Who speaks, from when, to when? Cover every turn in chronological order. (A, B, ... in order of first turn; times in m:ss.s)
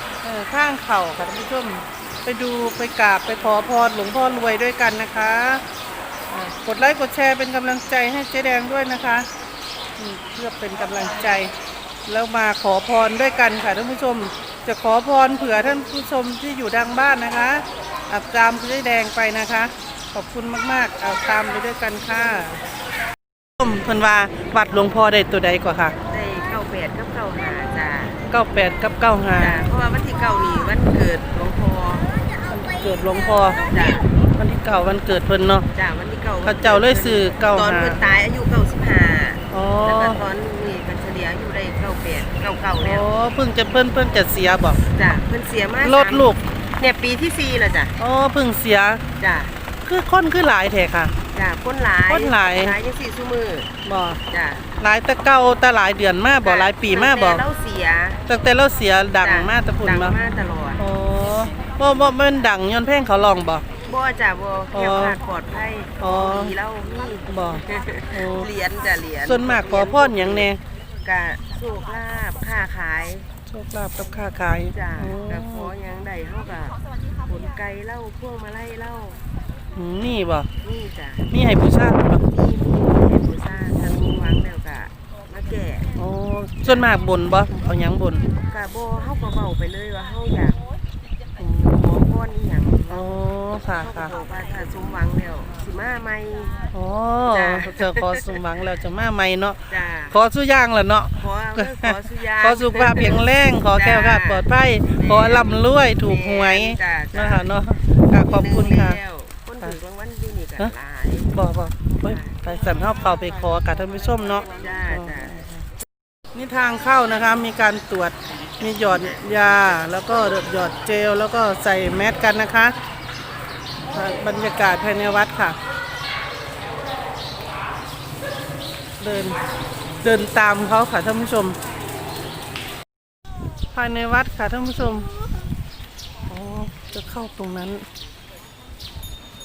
0:00.2-0:05.6 A
0:06.3-0:09.3 A
0:10.0-0:11.5 A
0:12.1-0:22.6 A
0:23.6-0:26.0 A
0:26.1-0:28.2 B
0:28.3-0:29.6 A
0:29.4-0:32.2 B
0:32.4-0:33.6 A
0:33.6-0:34.0 B
0:34.4-0:35.6 A
0:35.7-0:43.1 B
0:36.4-0:38.0 A
0:39.5-0:40.2 A
0:42.8-0:44.8 A
0:44.9-0:47.9 B
0:45.8-0:46.4 A
0:48.0-0:49.0 A
0:49.2-0:49.5 B
0:49.8-0:51.1 A
0:51.3-0:53.7 B
0:52.1-0:52.7 A
0:53.8-0:54.2 A
0:54.3-0:54.7 B
0:54.8-0:57.4 A
0:56.4-0:58.2 B
0:58.3-1:00.2 A
0:59.2-1:00.8 B
1:00.8-1:03.6 A
1:03.8-1:10.5 B
1:04.7-1:05.2 A
1:06.0-1:06.5 A
1:07.3-1:08.5 A
1:09.2-1:10.6 A
1:11.0-1:13.3 B
1:13.5-1:15.7 A
1:14.7-1:19.2 B
1:19.7-1:20.5 A
1:20.6-1:21.3 B
1:21.3-1:22.2 A
1:22.2-1:25.9 B
1:26.0-1:28.2 A
1:28.3-1:30.6 B
1:31.4-1:31.7 A
1:31.6-1:33.1 B
1:32.9-1:34.1 A
1:33.8-1:36.6 B
1:36.7-1:49.0 A
1:37.3-1:38.0 B
1:39.7-1:40.2 B
1:41.2-1:43.2 B
1:43.7-1:44.4 B
1:45.0-1:47.4 B
1:48.2-1:51.3 B
1:51.3-1:55.6 A
1:52.1-1:52.4 B
1:54.5-1:55.4 B
1:56.3-2:02.7 A
2:03.9-2:05.6 A
2:09.0-2:09.4 A
2:10.0-2:11.6 A
2:13.7-2:15.1 A
2:16.3-2:17.8 A